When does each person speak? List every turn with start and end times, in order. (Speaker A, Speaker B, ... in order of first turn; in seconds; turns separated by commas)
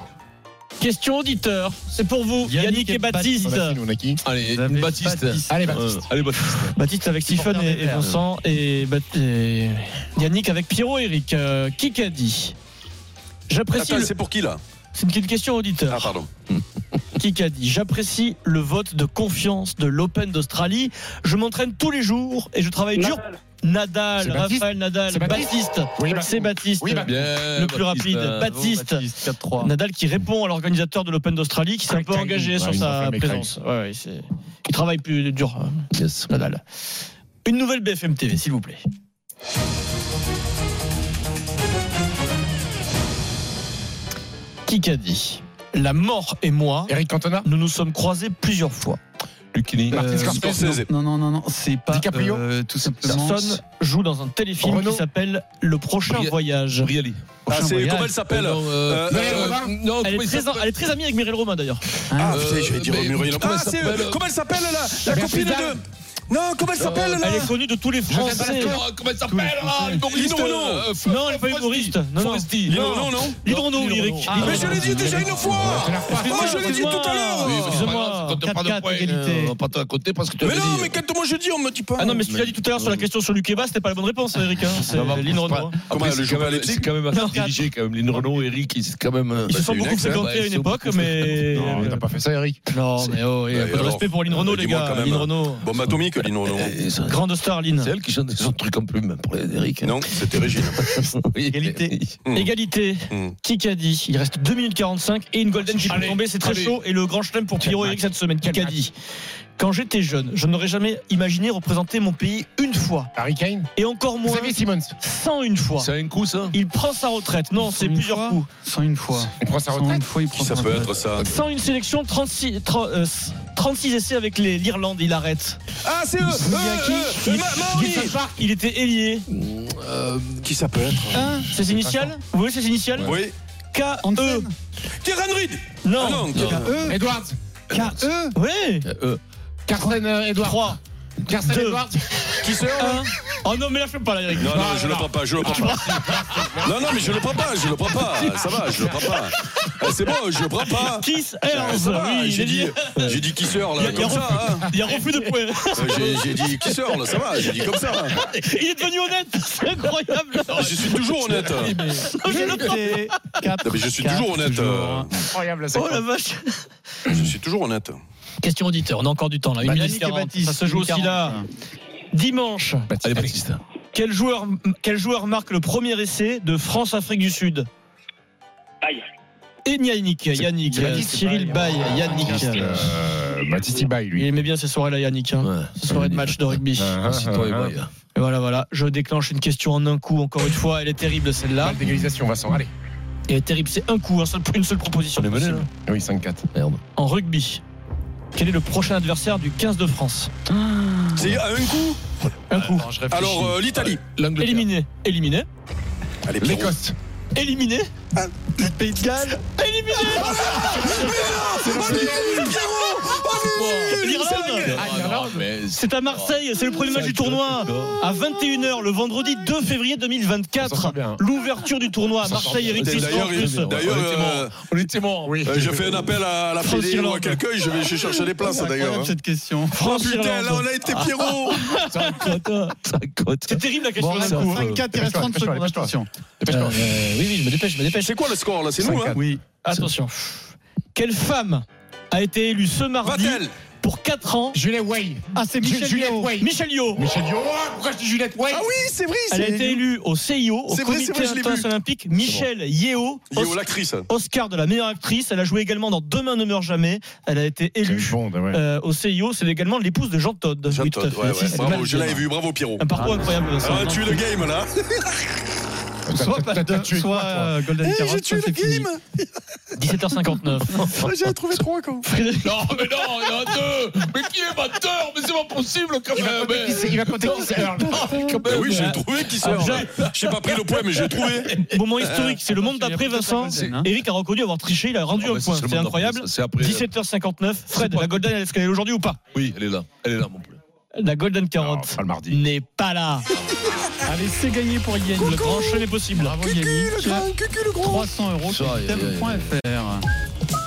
Speaker A: 0.8-3.8, Speaker B: 2.4-3.5, Speaker C: 3.4-4.2, Speaker D: 4.2-6.7, Speaker B: 4.4-6.1, Speaker C: 5.5-5.9, Speaker A: 6.4-12.6, Speaker B: 7.2-8.1, Speaker A: 13.5-14.1, Speaker E: 13.7-14.6, Speaker A: 14.9-16.1, Speaker E: 15.9-16.3, Speaker A: 17.2-36.6, Speaker C: 24.2-27.3, Speaker D: 27.1-28.5, Speaker B: 28.3-29.7, Speaker C: 31.9-33.5, Speaker D: 35.9-36.3, Speaker A: 37.4-38.8, Speaker A: 44.6-49.0, Speaker C: 46.9-47.5, Speaker D: 49.5-50.0, Speaker B: 49.9-53.6, Speaker C: 49.9-50.8, Speaker E: 50.1-50.9, Speaker C: 51.9-52.4, Speaker A: 53.0-56.9, Speaker C: 54.6-55.1, Speaker D: 56.1-57.3, Speaker B: 57.5-58.2, Speaker E: 57.5-59.6, Speaker D: 58.2-60.7, Speaker C: 59.1-59.8, Speaker A: 60.0-61.8, Speaker B: 62.1-62.5, Speaker E: 62.2-67.5, Speaker D: 62.3-64.2, Speaker C: 65.0-65.8, Speaker D: 66.8-67.2, Speaker A: 67.2-68.8, Speaker B: 67.2-67.5, Speaker C: 68.1-68.8, Speaker D: 68.3-76.3, Speaker B: 68.6-70.0, Speaker E: 70.1-70.9, Speaker A: 70.2-75.3, Speaker E: 72.6-73.4, Speaker B: 74.2-75.2, Speaker E: 74.3-78.0, Speaker C: 75.5-76.5, Speaker A: 76.1-78.4, Speaker B: 76.5-77.0, Speaker D: 77.4-81.0, Speaker B: 78.4-79.6, Speaker E: 80.4-82.2, Speaker A: 82.0-85.8, Speaker D: 82.2-83.1, Speaker D: 84.7-92.0, Speaker E: 85.9-86.9, Speaker A: 87.1-87.6, Speaker E: 89.5-90.2, Speaker A: 89.5-91.9, Speaker C: 91.5-92.6, Speaker A: 92.7-95.7, Speaker E: 93.5-96.8, Speaker D: 96.4-97.2, Speaker A: 97.0-97.9, Speaker D: 97.8-102.2, Speaker E: 99.8-100.9, Speaker B: 101.5-101.9, Speaker E: 102.2-102.5, Speaker A: 102.3-108.9, Speaker E: 103.1-103.3, Speaker C: 105.7-106.2, Speaker D: 106.4-106.8, Speaker C: 107.6-108.8, Speaker A: 109.6-113.1, Speaker C: 113.2-113.7, Speaker A: 113.8-115.9, Speaker C: 114.2-114.9, Speaker D: 115.8-116.6, Speaker A: 116.5-118.5, Speaker B: 117.7-121.0, Speaker C: 119.4-120.1, Speaker E: 120.3-121.3, Speaker A: 121.2-125.6, Speaker E: 125.8-128.2, Speaker B: 126.2-127.0, Speaker A: 127.0-129.3, Speaker C: 127.8-128.3, Speaker D: 129.3-130.5, Speaker E: 130.4-132.0, Speaker B: 131.1-131.5, Speaker A: 131.4-133.2, Speaker E: 133.0-133.3, Speaker A: 133.7-134.5, Speaker B: 134.0-134.5, Speaker E: 135.0-136.8, Speaker A: 135.8-136.4, Speaker B: 136.4-137.0, Speaker C: 136.8-137.4, Speaker B: 137.7-138.3, Speaker A: 138.3-138.9, Speaker D: 138.8-139.2, Speaker C: 139.7-142.0, Speaker A: 140.4-140.8, Speaker A: 141.4-141.9, Speaker E: 142.4-143.1, Speaker A: 142.8-144.7, Speaker E: 144.4-145.8, Speaker C: 144.4-147.1, Speaker A: 145.4-146.5, Speaker E: 146.6-154.8, Speaker A: 147.9-149.2, Speaker A: 150.6-153.2, Speaker A: 153.7-156.8, Speaker C: 154.4-154.6, Speaker E: 155.8-158.2, Speaker A: 157.4-163.3, Speaker E: 160.5-161.8, Speaker B: 161.5-165.1, Speaker E: 163.6-165.2, Speaker C: 165.2-166.1, Speaker A: 165.7-166.7, Speaker E: 167.1-168.0, Speaker A: 168.4-171.4, Speaker B: 169.6-171.5, Speaker A: 172.1-172.9, Speaker C: 172.9-173.3, Speaker D: 173.0-173.6, Speaker A: 173.9-177.7, Speaker A: 179.6-182.9, Speaker B: 180.6-183.0, Speaker C: 180.7-184.3, Speaker A: 184.1-187.0, Speaker D: 185.4-187.9, Speaker C: 186.7-187.8, Speaker A: 188.1-191.8, Speaker C: 191.6-192.7, Speaker A: 193.3-195.7, Speaker D: 195.2-195.7, Speaker C: 195.8-196.4, Speaker D: 196.5-196.8, Speaker A: 196.9-197.6, Speaker A: 198.3-200.3, Speaker B: 200.5-201.3, Speaker E: 201.1-202.0, Speaker A: 202.5-202.9, Speaker B: 202.6-203.6, Speaker E: 203.1-204.0, Speaker D: 203.8-204.7, Speaker A: 204.4-205.5, Speaker E: 206.2-206.8, Speaker C: 206.4-206.9, Speaker A: 207.3-207.9, Speaker B: 208.6-209.4, Speaker A: 208.9-211.4, Speaker E: 210.3-214.9, Speaker C: 211.0-212.6, Speaker D: 211.8-212.3, Speaker D: 213.3-214.0, Speaker A: 213.8-214.8, Speaker D: 214.6-218.0, Speaker C: 214.7-215.4, Speaker A: 215.7-223.7, Speaker C: 220.6-221.2, Speaker C: 222.2-222.7, Speaker D: 222.4-225.4, Speaker E: 222.8-224.6, Speaker C: 225.2-225.8, Speaker E: 225.4-229.1, Speaker A: 226.6-227.4, Speaker B: 228.4-229.8, Speaker A: 229.7-232.8, Speaker E: 229.8-231.7, Speaker D: 232.0-233.6, Speaker A: 233.4-234.7, Speaker B: 234.0-236.1, Speaker D: 234.2-234.9, Speaker C: 234.9-236.9, Speaker A: 236.5-238.2, Speaker E: 238.0-239.2, Speaker C: 238.8-239.2, Speaker B: 239.1-239.4, Speaker A: 239.6-244.6, Speaker E: 243.0-243.5, Speaker C: 244.5-248.7, Speaker B: 245.3-246.3, Speaker A: 246.4-247.0, Speaker E: 248.5-249.8, Speaker A: 249.3-262.3, Speaker E: 250.7-251.7, Speaker E: 253.3-254.1, Speaker C: 257.8-258.6, Speaker E: 260.7-262.9, Speaker B: 261.5-261.8, Speaker A: 262.8-264.2, Speaker B: 262.9-263.5, Speaker E: 263.6-265.2, Speaker C: 266.1-267.5, Speaker B: 266.1-268.9, Speaker E: 267.8-269.2, Speaker A: 269.7-270.9, Speaker E: 270.8-272.1, Speaker A: 272.1-273.3, Speaker D: 272.4-281.8, Speaker C: 276.1-278.2, Speaker E: 278.4-282.4, Speaker A: 279.4-279.9, Speaker A: 281.4-289.2, Speaker B: 282.3-283.9, Speaker D: 283.5-283.8, Speaker D: 285.2-286.9, Speaker B: 287.7-288.2, Speaker D: 289.3-290.6, Speaker A: 290.9-293.3, Speaker C: 291.6-292.4, Speaker B: 294.0-295.5, Speaker E: 295.1-298.1, Speaker A: 295.2-296.4, Speaker B: 296.2-300.1, Speaker D: 298.4-299.6